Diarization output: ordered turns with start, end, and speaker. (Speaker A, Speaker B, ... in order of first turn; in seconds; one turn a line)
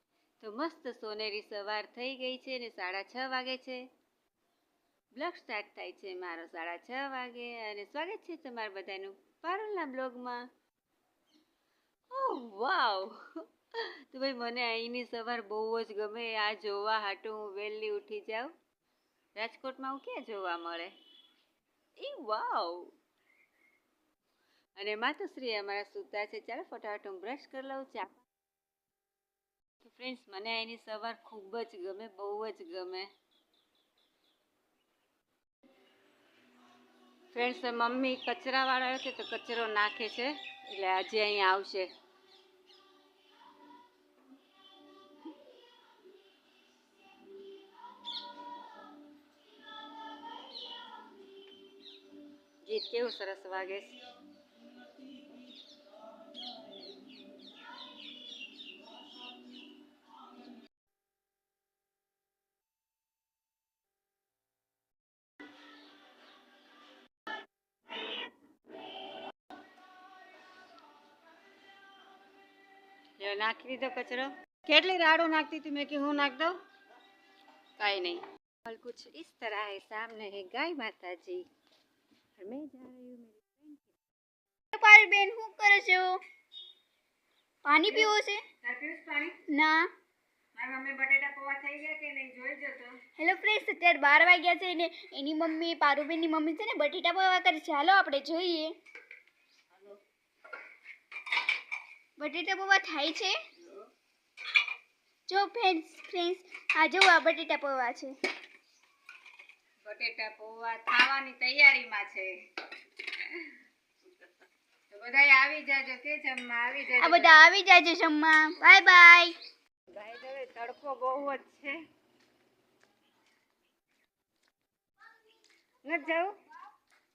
Speaker A: 0.4-3.8
Speaker A: 5.1-10.5
Speaker A: 12.1-13.2
Speaker A: 13.8-18.5
Speaker A: 19.4-20.9
Speaker A: 22.0-22.9
Speaker A: 24.8-28.2
Speaker A: 29.8-33.1
Speaker A: 37.3-41.9
Speaker A: 52.6-54.0
Speaker A: 73.2-76.5
Speaker A: 77.8-81.4
Speaker A: 82.4-83.9
Speaker B: 84.7-86.2
Speaker B: 87.6-88.4
Speaker A: 88.6-89.4
Speaker B: 89.5-89.9
Speaker A: 90.5-93.0
Speaker B: 93.2-98.7
Speaker B: 102.2-103.4
Speaker B: 105.3-108.1
Speaker A: 109.8-112.3
Speaker A: 113.1-113.5
Speaker A: 114.9-117.4
Speaker B: 117.0-119.3
Speaker A: 119.9-121.8
Speaker A: 125.8-126.3